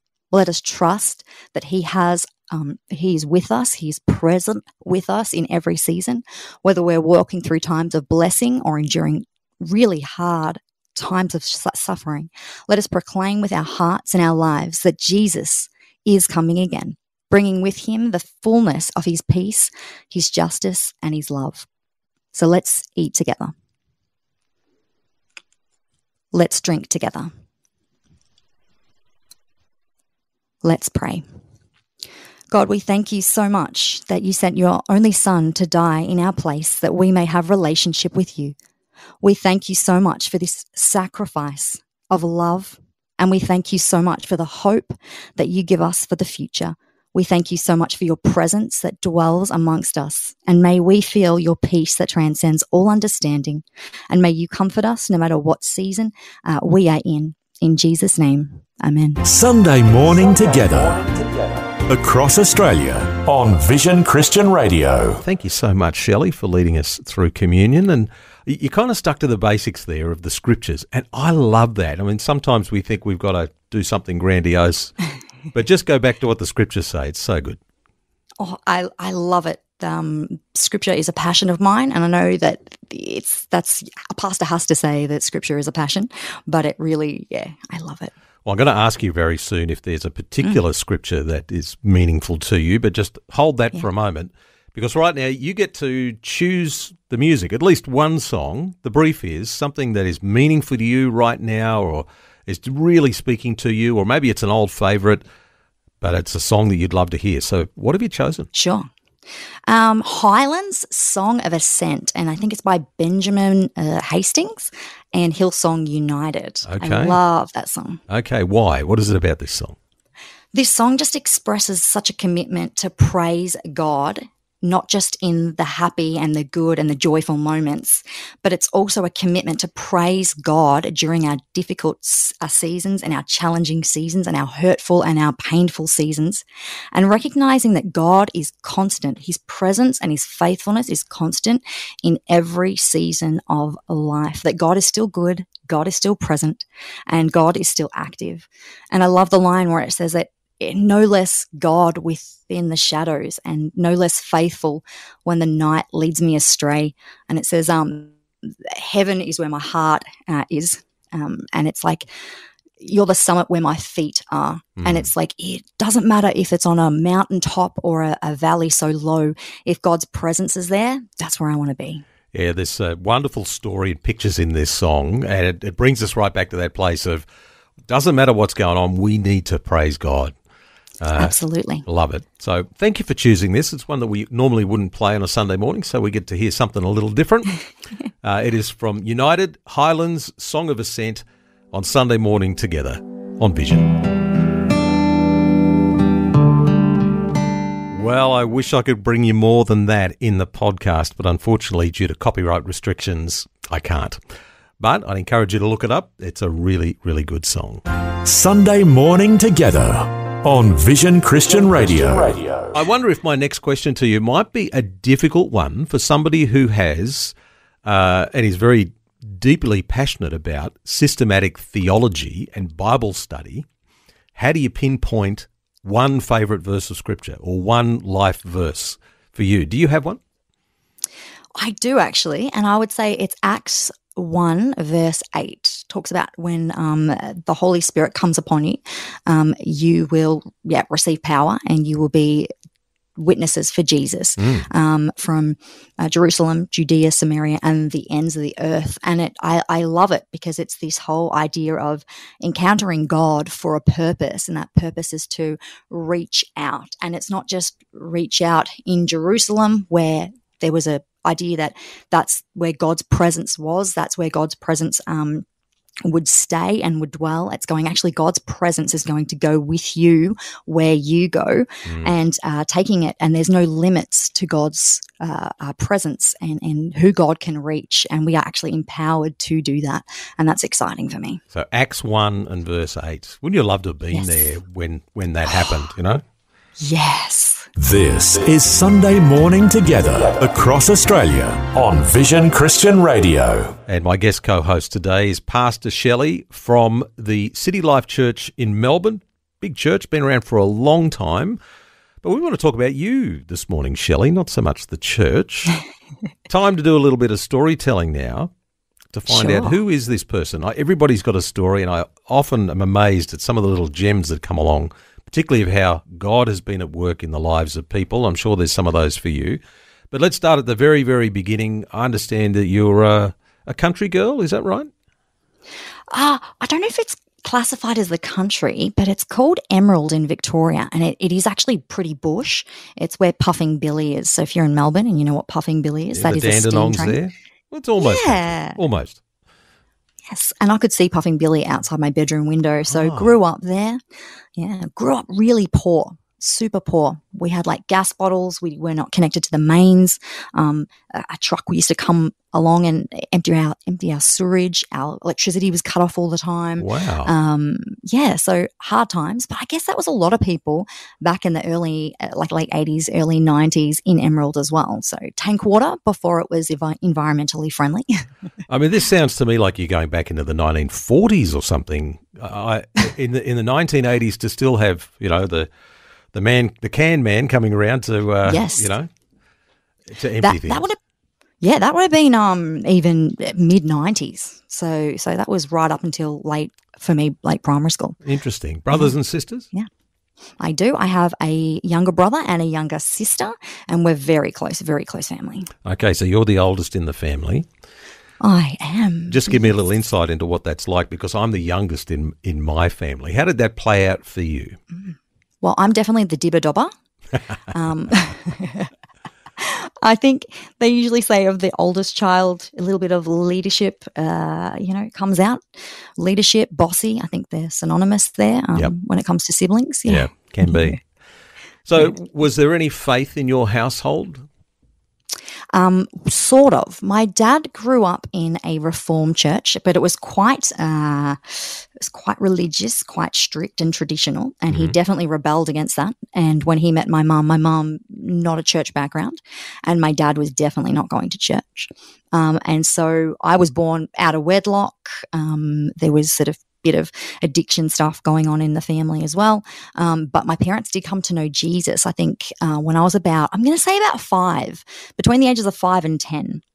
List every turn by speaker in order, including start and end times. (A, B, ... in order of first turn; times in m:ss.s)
0:00.3-0:21.6 A
0:22.3-0:23.5 A
0:26.3-0:27.3 A
0:30.6-0:31.2 A
0:32.5-0:38.6 A
0:39.2-0:59.2 A
0:59.2-1:05.2 B
1:05.2-1:15.0 C
1:15.5-1:17.6 C
1:18.4-1:28.1 A
1:28.4-1:45.2 C
1:46.0-1:48.5 C
1:48.5-1:48.9 A
1:49.7-1:58.0 A
1:56.7-1:57.2 C
1:58.1-1:59.8 C
2:00.5-2:42.1 A
2:42.8-2:52.0 A
2:44.8-2:45.0 C
2:52.3-2:57.2 C
2:57.9-3:00.3 C
3:01.0-3:07.6 C
3:01.2-3:01.8 A
3:08.2-3:13.9 C
3:17.9-3:24.2 C
3:24.8-3:27.8 C
3:28.2-3:32.8 B
3:32.7-3:37.3 C
3:37.8-3:43.6 C
3:44.3-3:50.2 C
3:51.6-4:02.5 A
4:03.2-4:25.4 A
4:04.4-4:04.7 C
4:26.0-4:41.4 A
4:31.8-4:32.1 C
4:41.5-4:46.2 C
4:44.1-4:44.5 A
4:45.5-4:45.9 A
4:46.8-4:47.7 A
4:47.8-4:53.8 B
4:53.9-5:01.6 C
5:02.2-5:05.8 C
5:06.5-5:08.5 C
5:09.1-5:19.6 C
5:09.3-5:09.7 A
5:20.1-5:24.9 C
5:26.1-5:37.2 A
5:36.1-5:39.2 C
5:38.0-5:38.8 A
5:40.3-5:44.0 A
5:42.9-5:43.4 C
5:44.6-6:08.2 A
5:56.8-5:57.3 C
6:08.7-6:15.7 C
6:16.3-6:19.1 C
6:18.4-6:18.9 A
6:20.1-6:20.8 C
6:20.4-6:21.0 A
6:21.6-6:28.2 A
6:28.2-6:29.7 C
6:30.6-6:35.7 A
6:35.8-6:37.6 C
6:38.4-6:39.6 A
6:39.3-6:44.8 C
6:45.0-6:46.9 A
6:47.7-6:48.9 A
6:49.6-6:55.6 A
6:56.2-7:01.0 A
7:00.0-7:01.0 C
7:01.8-7:04.4 C
7:05.7-7:36.6 A